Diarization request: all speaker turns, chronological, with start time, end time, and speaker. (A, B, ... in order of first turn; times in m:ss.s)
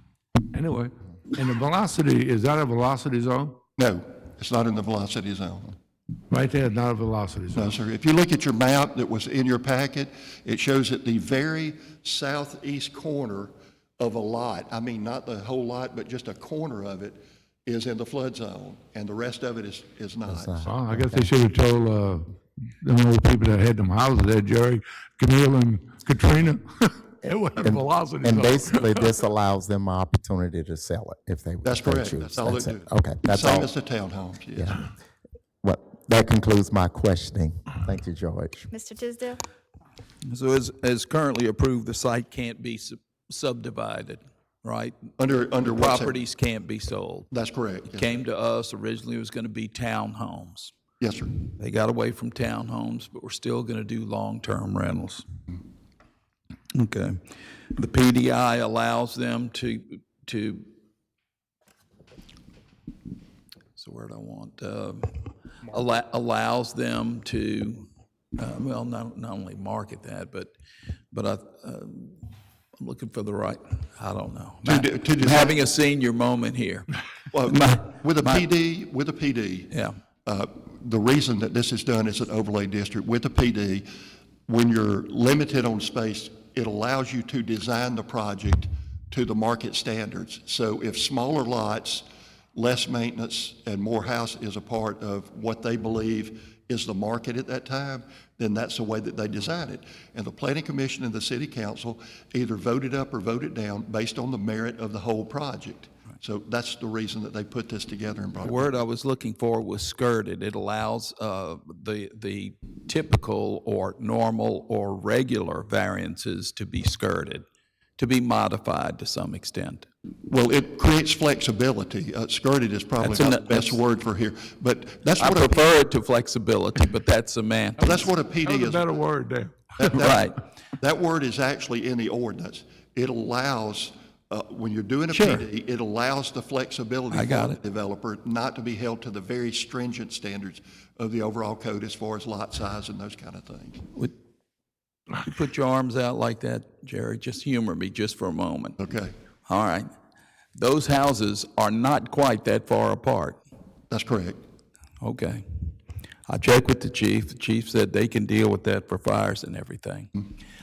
0:00.4-0:03.6 A
0:03.8-0:05.8 B
0:06.3-0:07.8 A
0:07.5-0:20.7 B
0:20.3-0:21.3 C
0:20.6-0:29.1 A
0:27.6-0:33.7 C
0:31.6-0:34.9 B
0:34.6-0:34.9 C
0:35.6-0:38.7 C
0:40.2-0:45.1 D
0:45.2-0:46.2 B
0:45.6-0:47.3 D
0:47.3-0:48.1 B
0:47.9-0:50.7 D
0:51.0-0:51.3 B
0:51.5-0:55.3 D
0:56.7-0:57.2 D
0:57.7-1:00.7 D
1:03.8-1:07.9 D
1:08.4-1:10.5 D
1:11.1-1:16.9 D
1:14.6-1:15.6 B
1:17.3-1:19.7 B
1:17.5-1:18.5 D
1:19.7-1:20.0 D
1:20.2-1:23.9 B
1:24.5-1:48.7 B
1:48.4-1:57.5 D
1:58.0-1:59.9 D
2:00.3-2:05.8 B
2:03.0-2:03.8 D
2:05.2-2:08.0 D
2:07.8-2:08.9 B
2:07.9-2:09.6 A
2:09.8-2:23.9 B
2:09.9-2:10.4 D
2:15.1-2:15.5 D
2:17.1-2:17.6 D
2:25.2-2:28.8 D
2:28.8-2:29.1 B
2:29.5-2:29.9 D
2:30.6-2:33.4 D
2:33.9-2:34.4 B
2:35.0-2:35.4 D
2:36.3-2:40.3 D